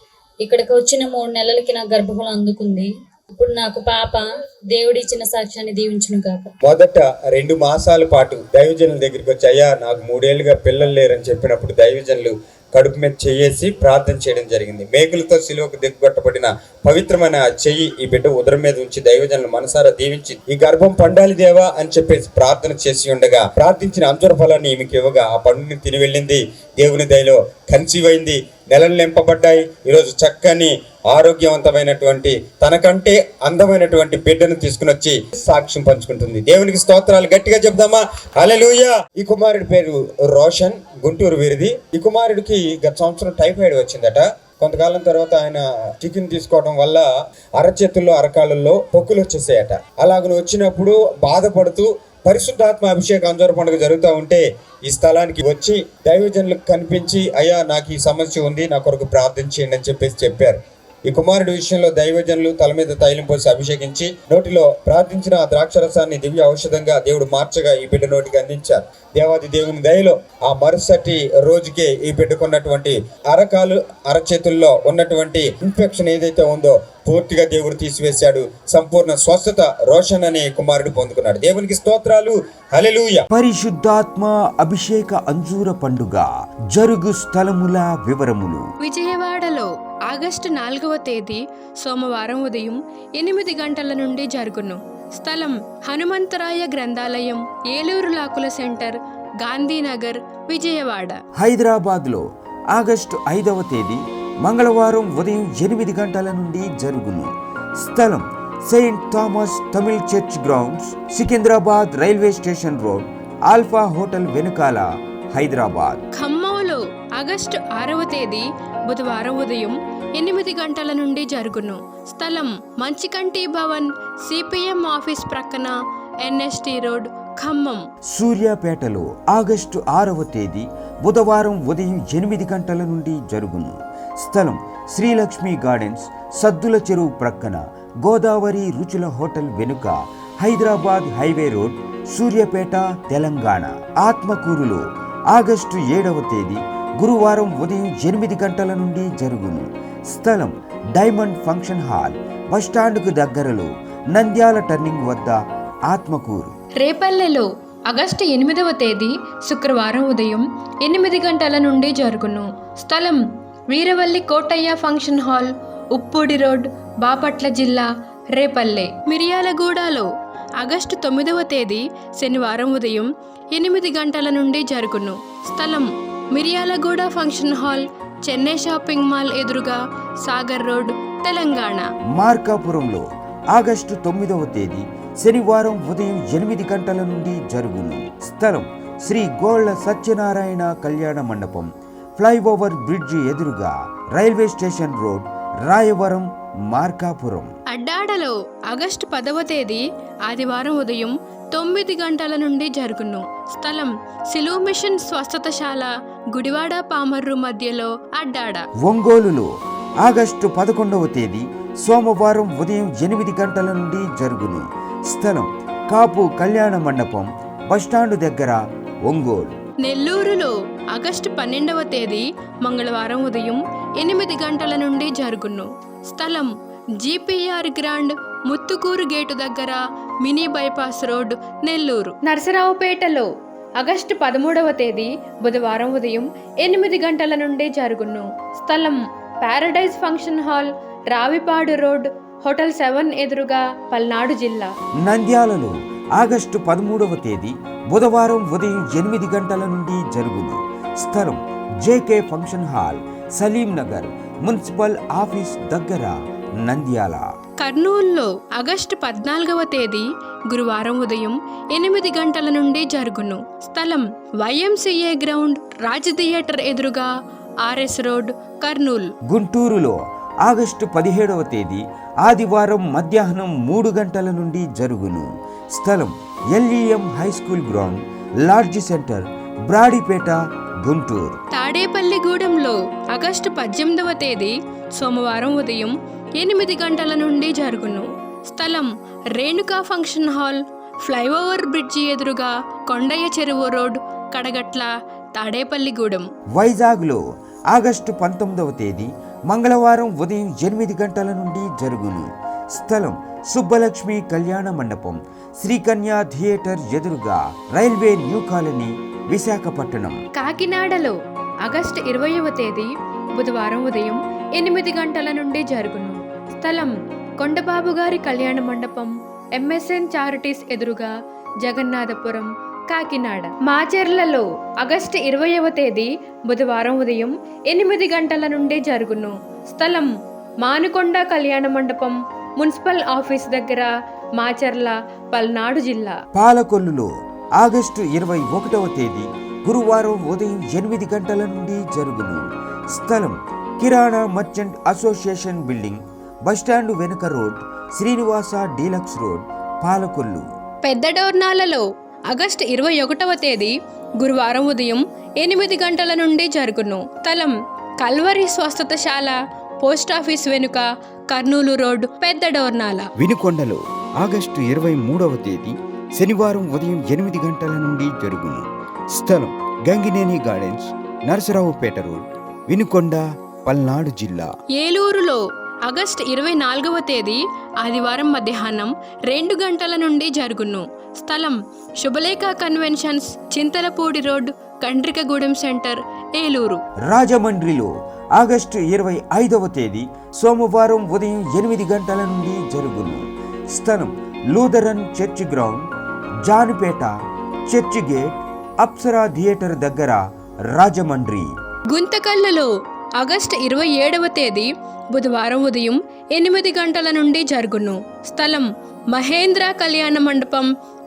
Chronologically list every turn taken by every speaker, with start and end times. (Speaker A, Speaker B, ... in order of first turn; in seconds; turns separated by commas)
Speaker A: 0.4-6.5, Speaker B: 6.6-47.0, Speaker B: 47.6-83.2, Speaker C: 83.3-88.6, Speaker D: 88.8-101.2, Speaker C: 101.4-116.0, Speaker D: 116.2-127.8, Speaker C: 128.1-156.5, Speaker D: 156.8-170.1, Speaker D: 170.6-181.9, Speaker C: 182.2-191.7, Speaker C: 192.2-197.5, Speaker D: 197.7-208.7, Speaker C: 208.8-209.5, Speaker C: 210.0-219.6, Speaker D: 219.8-233.3, Speaker D: 233.8-244.7, Speaker C: 245.0-257.2, Speaker D: 257.6-267.1, Speaker D: 267.6-269.1, Speaker C: 269.3-281.4, Speaker D: 281.5-296.3, Speaker C: 296.6-310.2, Speaker D: 310.4-321.1, Speaker D: 321.6-330.1, Speaker D: 330.6-336.2, Speaker C: 336.4-337.1, Speaker C: 337.6-350.4, Speaker D: 350.9-363.1, Speaker C: 363.2-374.5, Speaker D: 374.8-386.8, Speaker C: 387.1-395.8, Speaker C: 396.5-397.1, Speaker C: 397.7-400.2, Speaker C: 400.7-401.5, Speaker D: 401.9-410.7